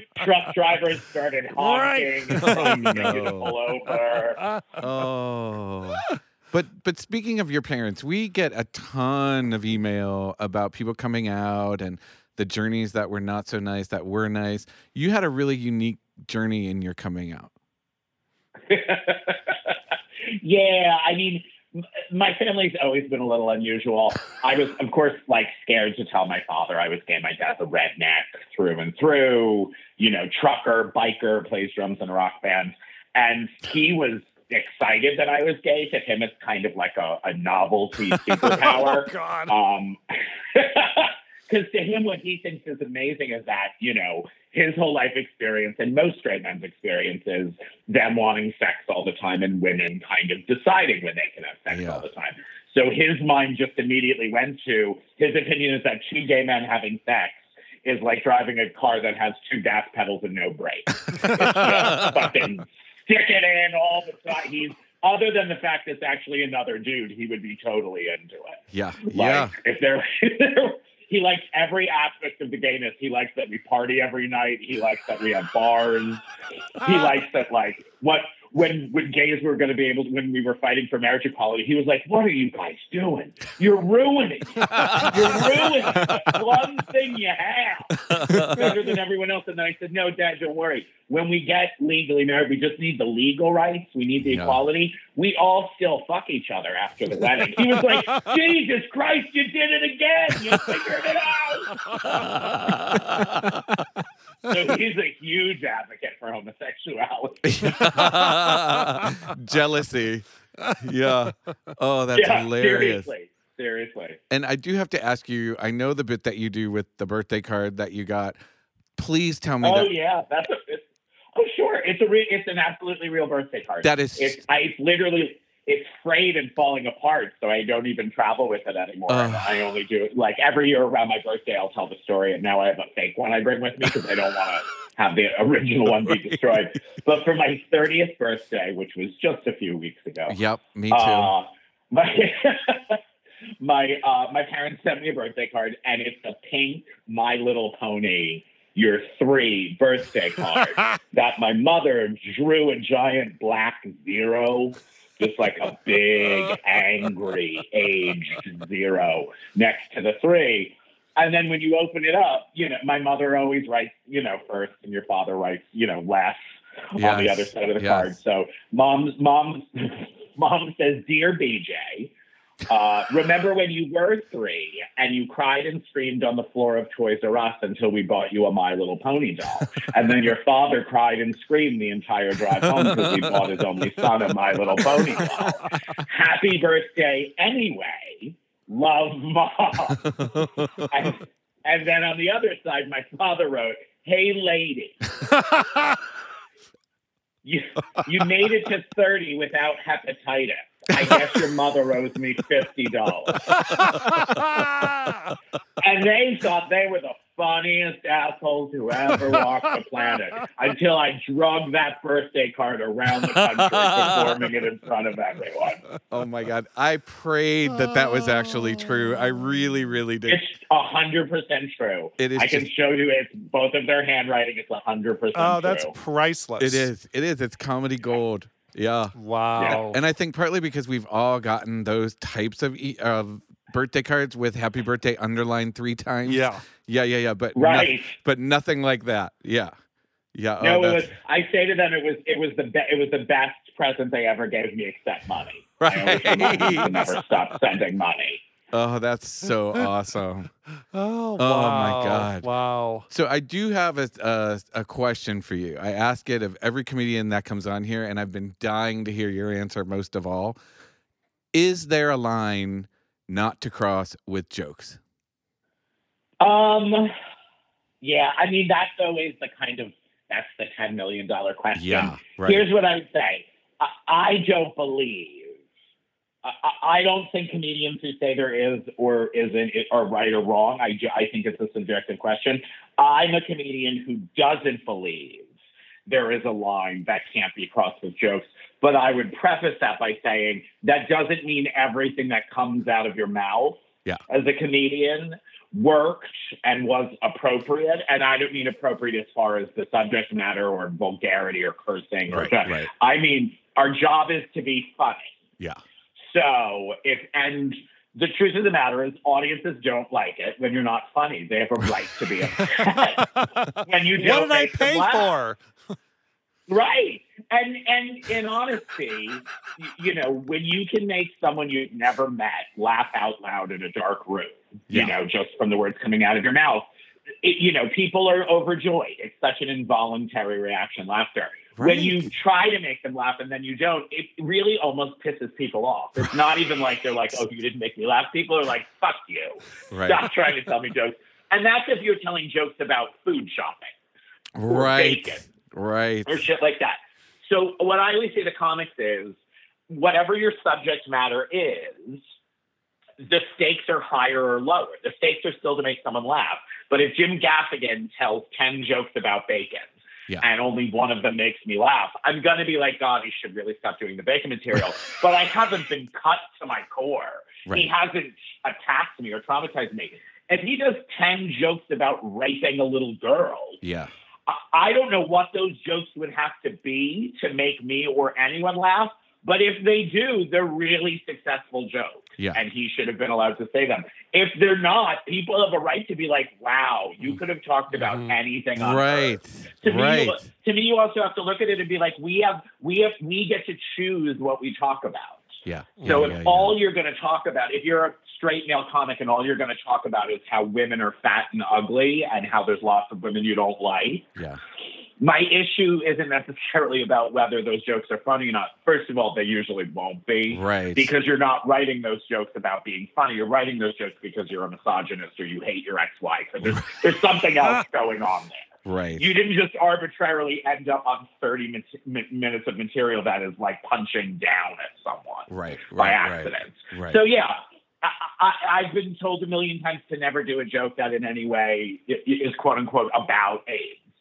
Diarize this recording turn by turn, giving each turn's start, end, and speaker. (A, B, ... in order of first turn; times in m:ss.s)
0:00.2-0:04.4 A
0:01.6-0:03.2 B
0:02.4-0:03.6 C
0:04.4-0:04.8 B
0:04.8-0:17.5 C
0:18.7-0:19.7 A
0:20.3-0:40.0 A
0:38.4-0:39.5 B
0:40.5-1:16.2 A
0:51.7-0:52.0 C
1:01.1-1:02.2 C
1:08.7-1:09.5 C
1:16.8-1:42.1 A
1:24.6-1:26.4 C
1:27.9-1:28.7 C
1:34.2-1:34.6 C
1:41.9-1:42.1 B
1:42.1-1:43.6 C
1:44.4-1:47.7 A
1:47.4-1:53.1 C
1:47.8-1:49.1 B
1:52.1-1:54.2 A
1:54.3-1:58.4 C
1:59.0-1:59.9 C
1:59.6-2:00.8 A
2:01.3-2:20.4 A
2:03.8-2:04.4 C
2:09.1-2:09.6 C
2:20.3-2:21.3 C
2:20.9-2:23.0 A
2:23.6-2:52.1 A
2:47.0-2:48.1 C
2:52.7-3:10.1 A
3:02.8-3:03.2 C
3:10.2-3:10.8 C
3:10.9-3:15.0 A
3:15.4-3:15.8 B
3:17.4-3:23.6 A
3:23.6-3:25.2 B
3:25.8-3:35.8 A
3:36.1-3:40.4 C
3:37.9-3:38.8 B
3:40.3-3:45.9 A
3:42.2-3:42.7 C
3:45.3-3:46.9 B
3:46.6-3:59.7 C
3:49.2-3:50.0 B
3:56.2-3:56.6 B
3:57.5-3:58.2 A
4:00.3-4:01.1 C
4:00.6-4:08.4 A
4:05.8-4:07.1 C
4:06.4-4:06.8 B
4:08.7-4:10.5 C
4:10.9-4:13.1 B
4:11.4-4:12.5 C
4:13.1-4:20.6 C
4:21.5-4:25.0 C
4:26.4-4:27.1 A
4:28.0-4:35.6 A
4:31.7-4:32.6 C
4:36.4-4:45.5 A
4:46.0-5:05.3 A
5:02.3-5:02.9 C
5:06.2-5:13.2 A
5:13.2-5:15.6 B
5:13.8-5:15.3 A
5:16.7-5:26.8 A
5:27.4-5:43.9 A
5:31.8-5:32.3 C
5:39.9-5:40.3 C
5:44.6-5:46.3 C
5:44.7-5:45.5 A
5:46.2-5:49.4 A
5:49.9-5:52.2 A
5:53.2-6:13.8 A
6:13.8-6:14.1 C
6:14.5-6:44.3 A
6:27.9-6:28.3 B
6:28.8-6:30.5 C
6:35.6-6:36.8 C
6:45.2-6:58.7 A
6:50.5-6:51.1 C
6:58.8-6:59.3 C
6:59.2-7:14.0 A
7:05.5-7:07.2 C